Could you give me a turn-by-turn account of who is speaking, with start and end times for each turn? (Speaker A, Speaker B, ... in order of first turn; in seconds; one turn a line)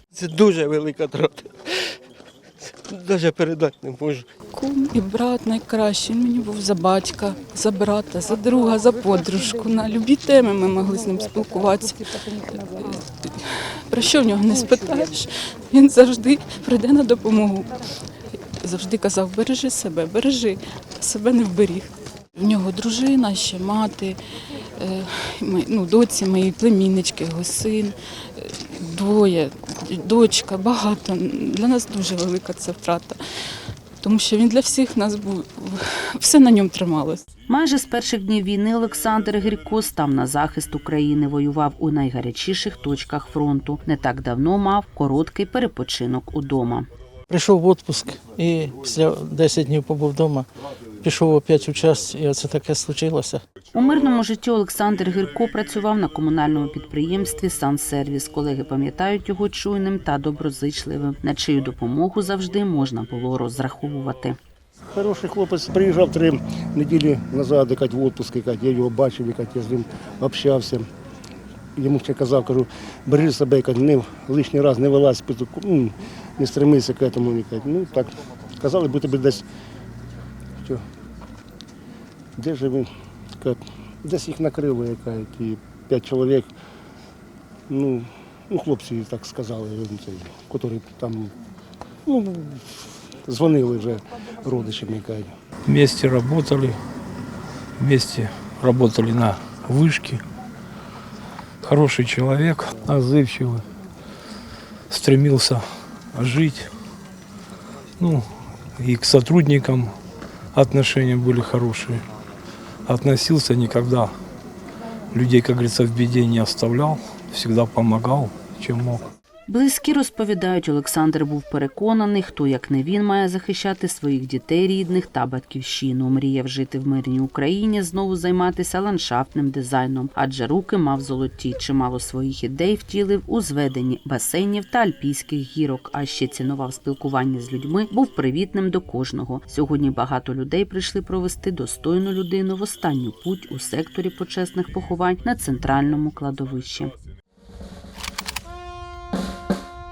Speaker A: 0.1-1.9
Speaker A: 2.6-4.2
Speaker B: 4.5-17.7
Speaker B: 18.6-24.2
Speaker B: 24.8-33.2
Speaker B: 34.0-37.2
Speaker C: 37.5-46.9
Speaker D: 47.3-50.5
Speaker D: 51.0-53.4
Speaker C: 53.7-64.4
Speaker E: 64.9-70.9
Speaker E: 71.8-79.4
Speaker E: 82.4-82.9
Speaker E: 83.4-86.5
Speaker E: 87.7-91.3
Speaker E: 92.1-95.3
Speaker F: 95.7-96.8
Speaker F: 97.8-100.2
Speaker F: 101.6-103.6
Speaker F: 104.9-105.6
Speaker F: 106.1-106.7
Speaker F: 108.0-108.2
Speaker F: 108.8-109.9
Speaker F: 110.5-112.0
Speaker F: 112.9-114.1
Speaker F: 115.1-119.0
Speaker C: 119.5-146.9